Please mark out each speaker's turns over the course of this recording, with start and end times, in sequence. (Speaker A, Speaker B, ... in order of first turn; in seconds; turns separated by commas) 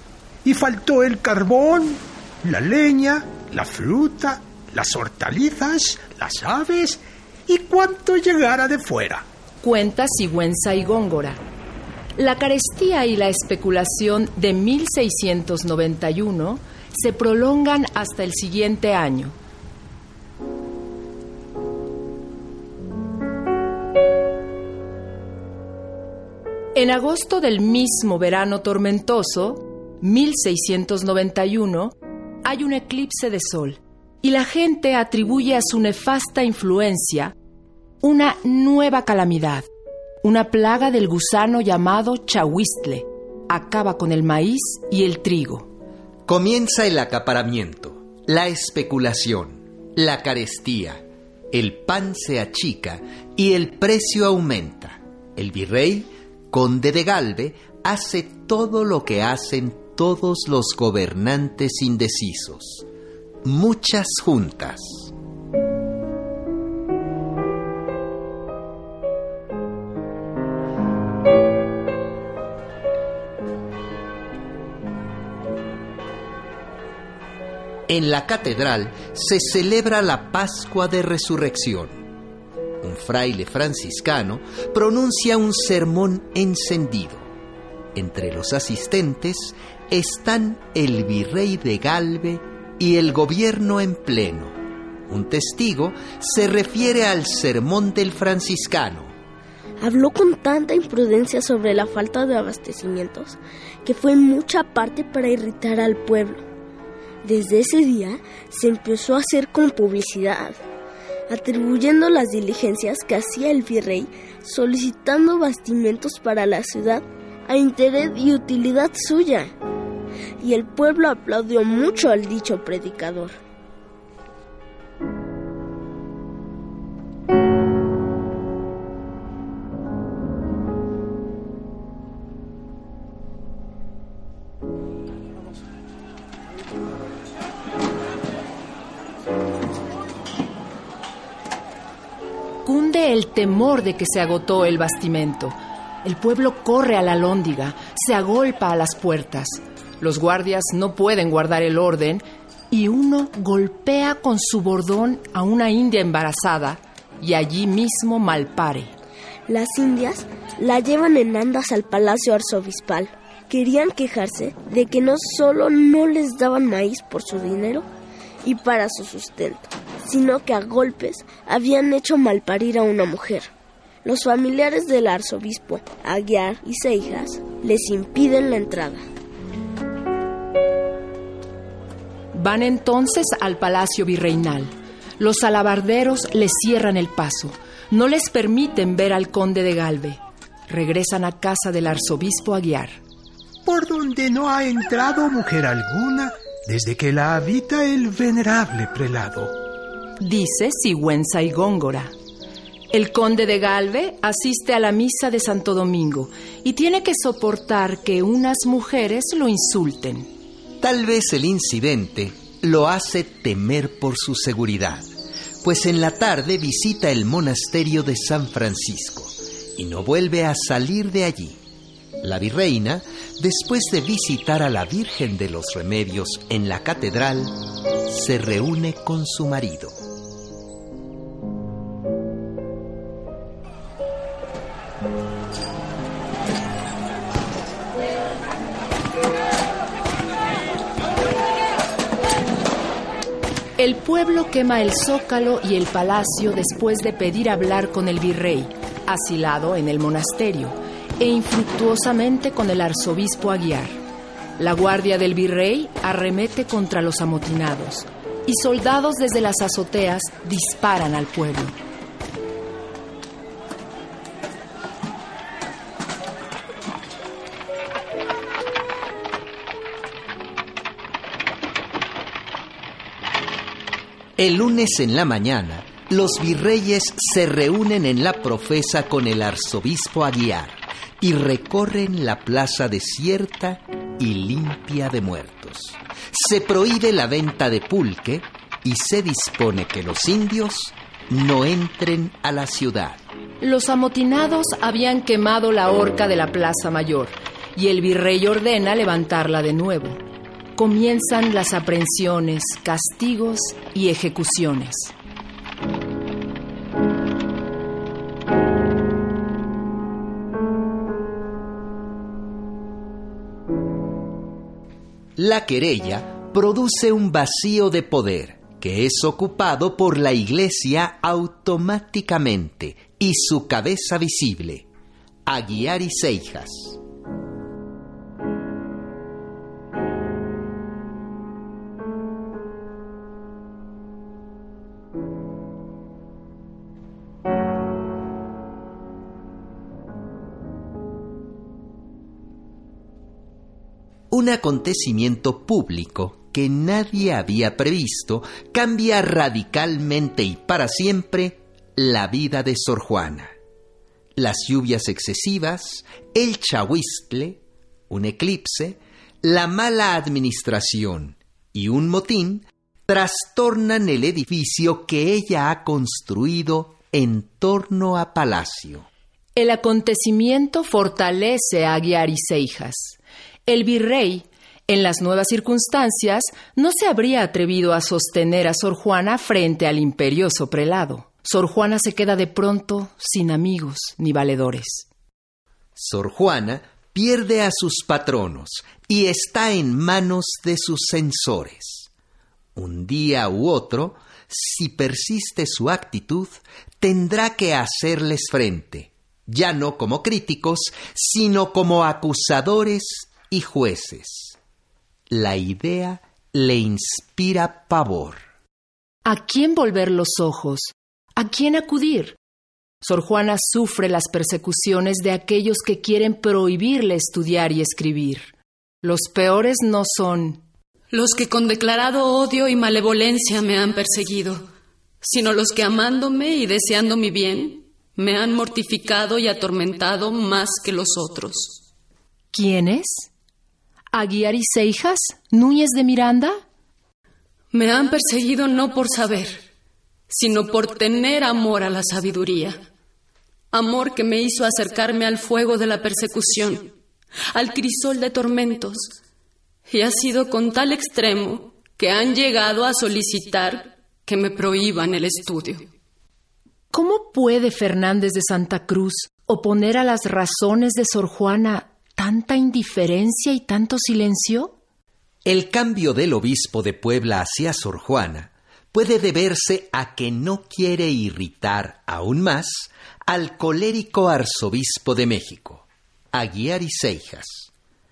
Speaker A: 0.4-9.2, Speaker B: 9.6-11.4, Speaker B: 12.2-19.4, Speaker B: 26.7-37.3, Speaker B: 38.0-39.7, Speaker B: 40.2-45.7, Speaker C: 46.2-62.9, Speaker C: 63.4-65.1, Speaker C: 77.9-82.1, Speaker C: 82.8-87.3, Speaker C: 87.9-99.1, Speaker D: 99.8-106.4, Speaker D: 107.2-110.6, Speaker D: 111.3-119.5, Speaker D: 120.4-123.4, Speaker B: 142.6-158.9, Speaker D: 159.5-167.9, Speaker D: 168.4-173.5, Speaker D: 174.0-179.0, Speaker B: 182.3-193.0, Speaker A: 193.6-199.6, Speaker B: 200.2-202.1, Speaker B: 202.9-210.3, Speaker C: 210.8-221.6, Speaker C: 222.2-230.0, Speaker B: 243.8-254.0, Speaker B: 254.6-261.8, Speaker C: 274.4-293.2, Speaker B: 293.6-300.2, Speaker B: 300.8-305.1, Speaker C: 315.4-324.9, Speaker C: 325.4-327.0, Speaker C: 344.3-353.5, Speaker C: 354.4-369.1, Speaker B: 369.6-385.1, Speaker C: 385.9-392.1, Speaker C: 392.7-404.6, Speaker C: 405.3-408.4, Speaker B: 409.2-412.4, Speaker B: 413.0-420.6, Speaker E: 421.1-424.6, Speaker E: 425.2-431.8, Speaker B: 432.5-433.3, Speaker B: 434.1-436.6, Speaker E: 437.7-439.6, Speaker E: 440.3-442.8, Speaker E: 443.7-446.9, Speaker E: 447.5-449.1, Speaker E: 449.9-455.9, Speaker B: 456.9-464.7, Speaker C: 465.4-477.7